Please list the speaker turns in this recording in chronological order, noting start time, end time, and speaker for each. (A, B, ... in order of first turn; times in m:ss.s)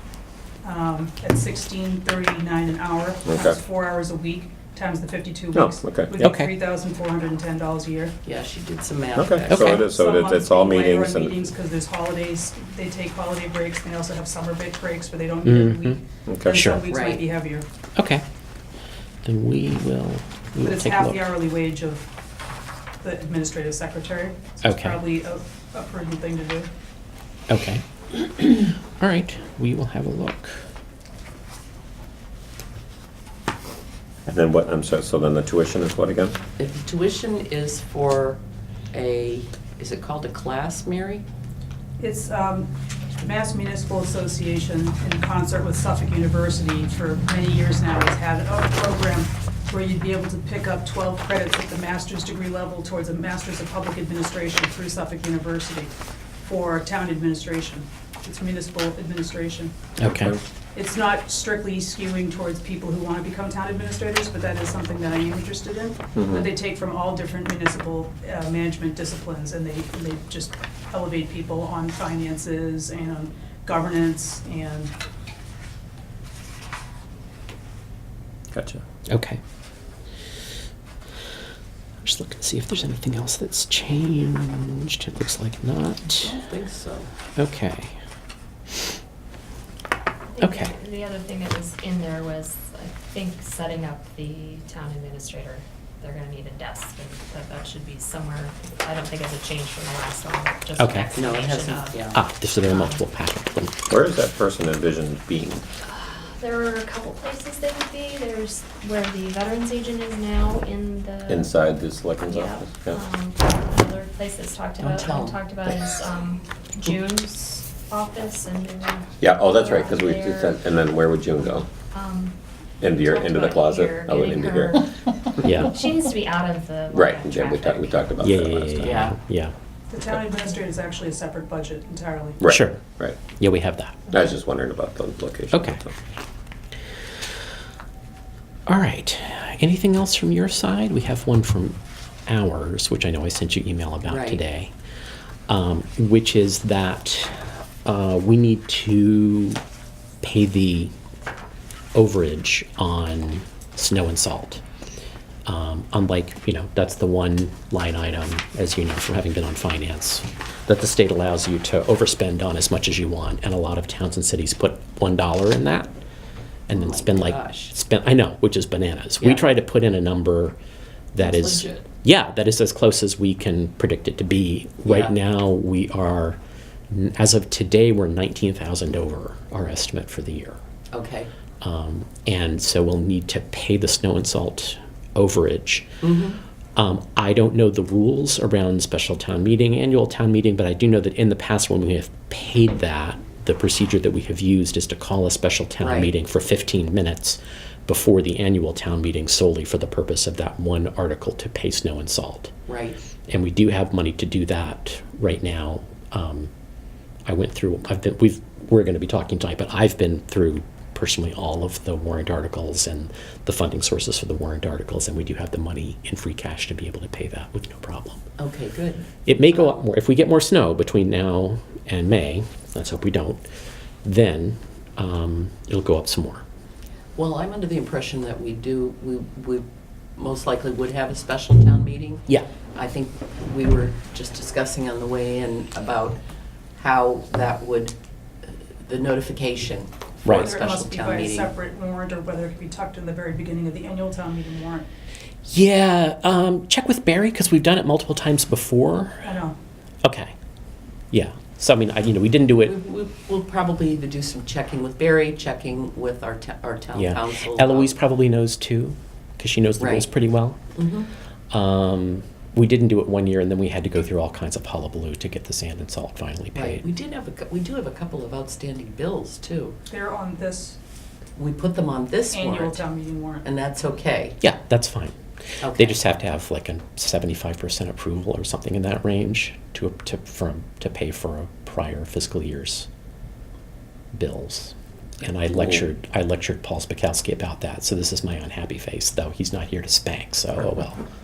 0:00.6-0:08.2 A
0:03.3-0:03.6 B
0:05.5-0:06.1 B
0:06.2-0:06.5 C
0:08.2-0:09.8 D
0:09.2-0:11.5 B
0:09.5-0:09.9 C
0:09.7-0:17.6 A
0:15.4-0:16.0 C
0:16.3-0:16.5 B
0:16.5-0:16.8 C
0:16.9-0:17.2 D
0:18.0-0:18.2 C
0:19.2-0:21.3 C
0:20.6-0:22.1 A
0:23.0-0:26.7 A
0:24.6-0:25.0 C
0:27.5-0:30.6 C
0:34.3-0:36.4 B
0:36.6-0:38.4 D
0:38.9-0:41.2 D
0:42.0-0:59.7 A
1:00.0-1:00.3 C
1:00.1-1:00.4 B
1:00.8-1:14.9 A
1:06.2-1:06.5 B
1:18.5-1:18.8 B
1:19.1-1:19.4 C
1:22.0-1:26.4 C
1:26.2-1:27.1 D
1:27.4-1:28.0 C
1:30.3-1:43.0 E
1:30.4-1:30.7 C
1:40.8-1:41.1 C
1:41.2-1:42.2 D
1:42.1-1:43.9 C
1:43.9-1:45.6 B
1:45.8-1:51.6 E
1:51.3-1:53.0 B
1:52.2-2:00.6 E
1:54.8-1:56.0 D
1:59.2-2:01.7 B
2:01.9-2:08.0 E
2:02.8-2:04.8 B
2:05.4-2:05.8 C
2:06.9-2:08.9 B
2:08.2-2:09.5 C
2:08.8-2:09.2 D
2:09.9-2:12.4 A
2:12.4-2:13.2 B
2:12.5-2:14.1 C
2:14.1-2:15.8 B
2:15.5-2:15.8 C
2:18.7-2:24.7 C
2:24.0-2:24.4 D
2:25.5-2:29.6 C
2:30.2-2:30.9 C
2:31.9-2:34.6 C
2:35.5-2:45.9 C
2:46.7-2:50.6 C
2:46.7-2:47.7 D
2:51.1-2:56.4 C
2:51.2-2:51.9 D
2:54.8-2:55.1 D
2:56.9-3:00.6 C
3:00.9-3:01.3 D
3:01.6-3:06.0 C
3:06.0-3:06.4 D
3:06.8-3:22.5 C
3:15.8-3:16.1 D
3:22.7-3:23.0 D
3:23.3-3:26.5 C
3:27.3-3:38.3 C
3:38.4-3:39.8 D
3:39.2-3:43.4 C
3:44.0-3:46.4 C
3:47.2-3:49.6 D
3:50.2-3:56.2 D
3:56.8-3:58.0 D
3:58.5-4:01.5 D
4:00.2-4:00.6 C
4:00.3-4:04.9 A
4:05.5-4:09.3 C
4:09.2-4:09.6 A
4:10.0-4:10.3 C
4:11.1-4:12.8 C
4:12.6-4:17.9 D
4:16.9-4:20.6 C
4:19.8-4:20.1 D
4:20.8-4:21.1 D
4:21.5-4:26.8 C
4:26.5-4:29.8 D
4:29.9-4:30.8 A
4:31.4-4:32.8 D
4:32.3-4:33.5 A
4:33.4-4:34.4 D
4:34.4-4:42.9 C
4:35.6-4:36.0 D
4:44.1-4:51.0 C